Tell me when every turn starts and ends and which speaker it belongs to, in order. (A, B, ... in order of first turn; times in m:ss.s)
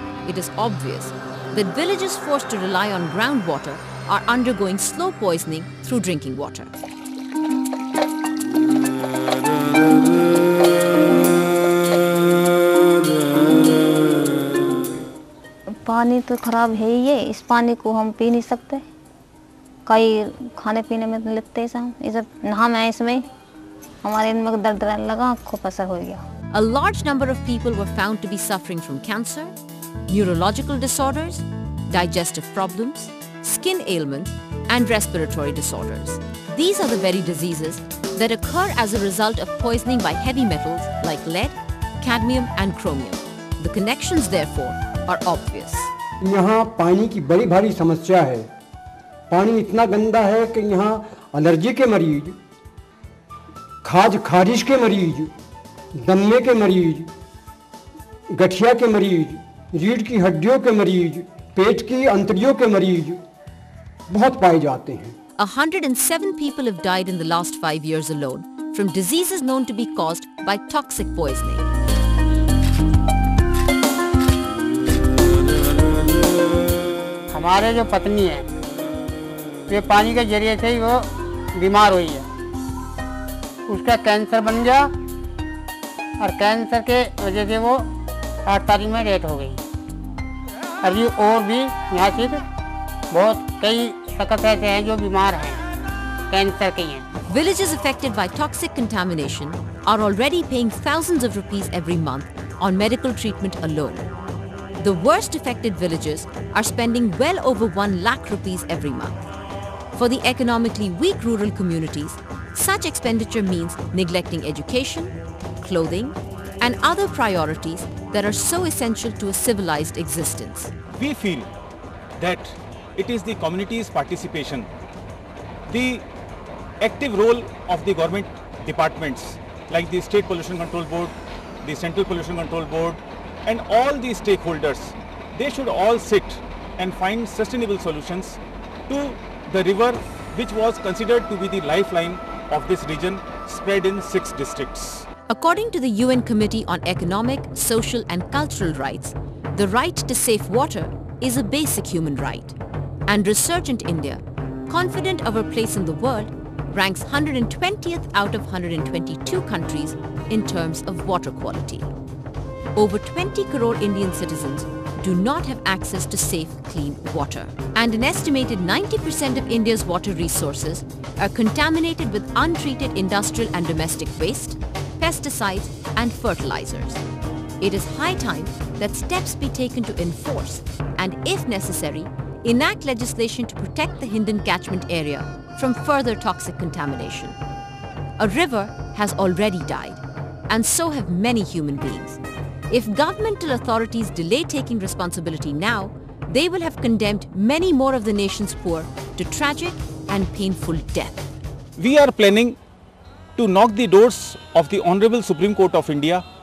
0:00.2-0:06.8 A
0:15.9-0:18.8 B
0:19.9-0:23.2 B
0:24.1-0:26.2 B
0:26.5-0:29.5 A
0:30.1-0:45.9 A
0:46.2-0:48.5 C
0:49.3-0:52.4 C
0:53.8-0:55.3 C
0:56.0-0:57.1 C
0:58.4-1:03.2 C
1:04.1-1:05.1 C
1:05.4-1:11.6 A
1:17.3-1:18.5 D
1:19.7-1:22.3 D
1:23.7-1:24.9 D
1:26.2-1:27.9 D
1:28.5-1:29.6 D
1:30.8-1:32.4 D
1:33.1-1:35.6 D
1:36.3-1:37.0 D
1:37.3-1:44.1 A
1:44.8-1:49.2 A
1:49.9-2:00.7 A
2:00.9-2:01.5 E
2:02.2-2:04.7 E
2:05.7-2:06.0 E
2:06.8-2:25.1 E
2:25.3-2:32.6 A
2:33.1-2:41.9 A
2:42.8-2:57.0 A
2:57.6-3:07.4 A
3:08.2-3:21.3 A
3:21.8-3:22.6 E
3:23.4-3:26.2 E